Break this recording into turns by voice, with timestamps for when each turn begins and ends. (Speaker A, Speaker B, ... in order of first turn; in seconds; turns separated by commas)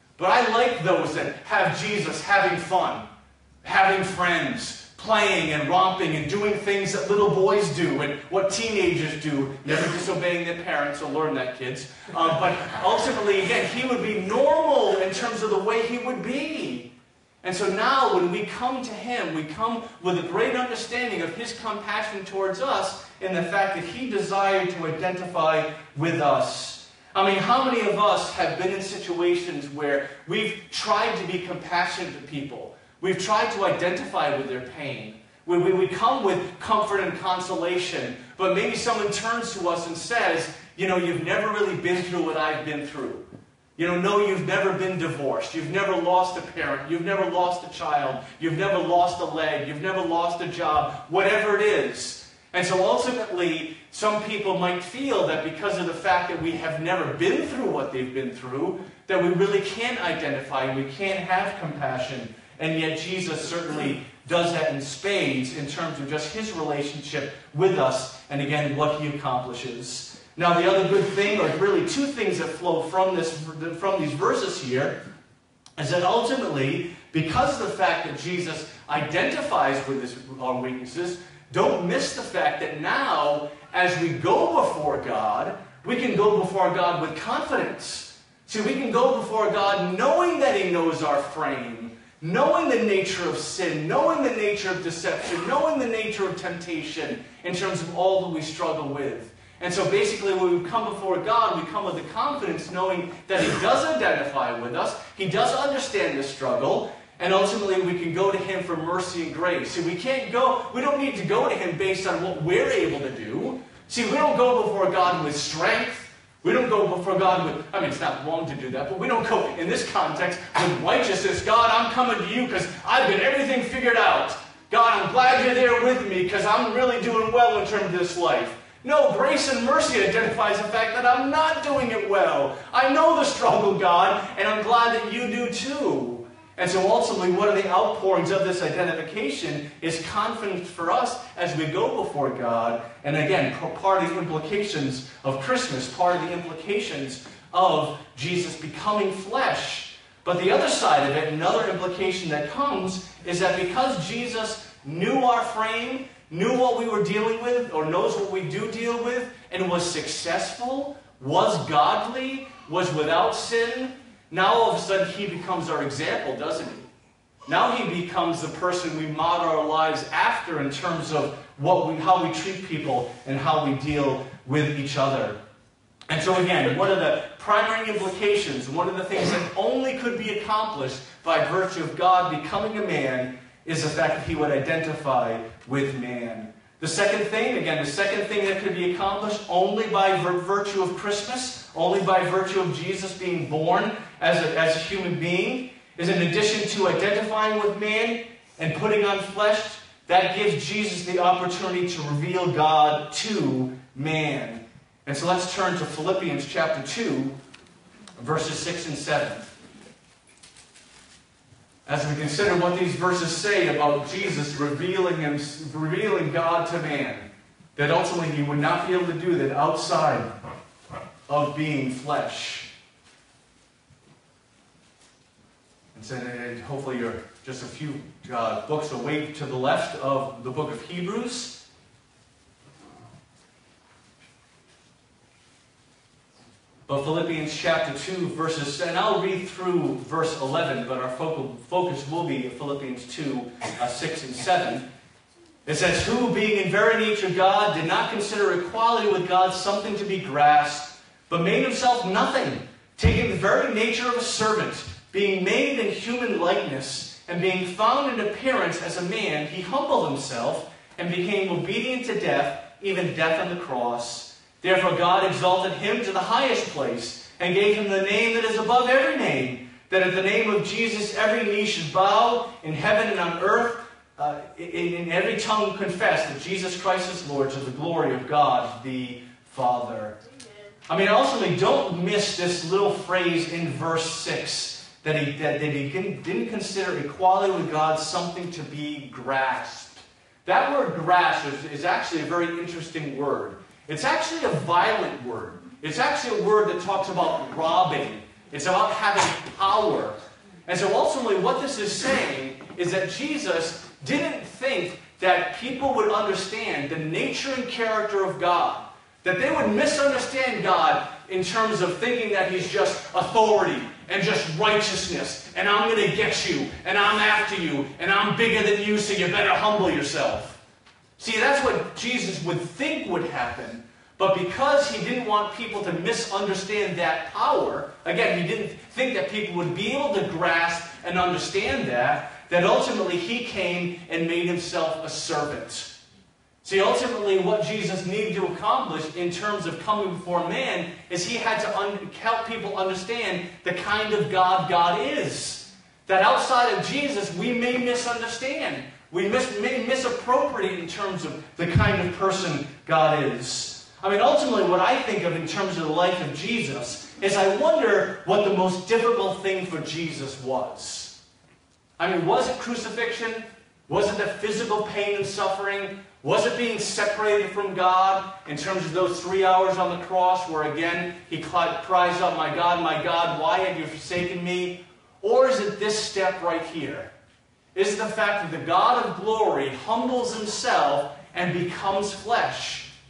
Speaker A: 0.2-3.1, Speaker A: 3.6-16.9, Speaker A: 17.4-43.2, Speaker A: 43.8-75.0, Speaker A: 75.8-166.9, Speaker A: 167.5-175.4, Speaker A: 176.1-207.3, Speaker A: 208.2-209.4, Speaker A: 211.9-220.3, Speaker A: 221.3-222.7, Speaker A: 225.9-231.6, Speaker A: 236.9-244.8, Speaker A: 245.7-280.2, Speaker A: 280.9-320.6, Speaker A: 321.2-335.9, Speaker A: 336.6-361.2, Speaker A: 362.0-377.1, Speaker A: 377.8-382.9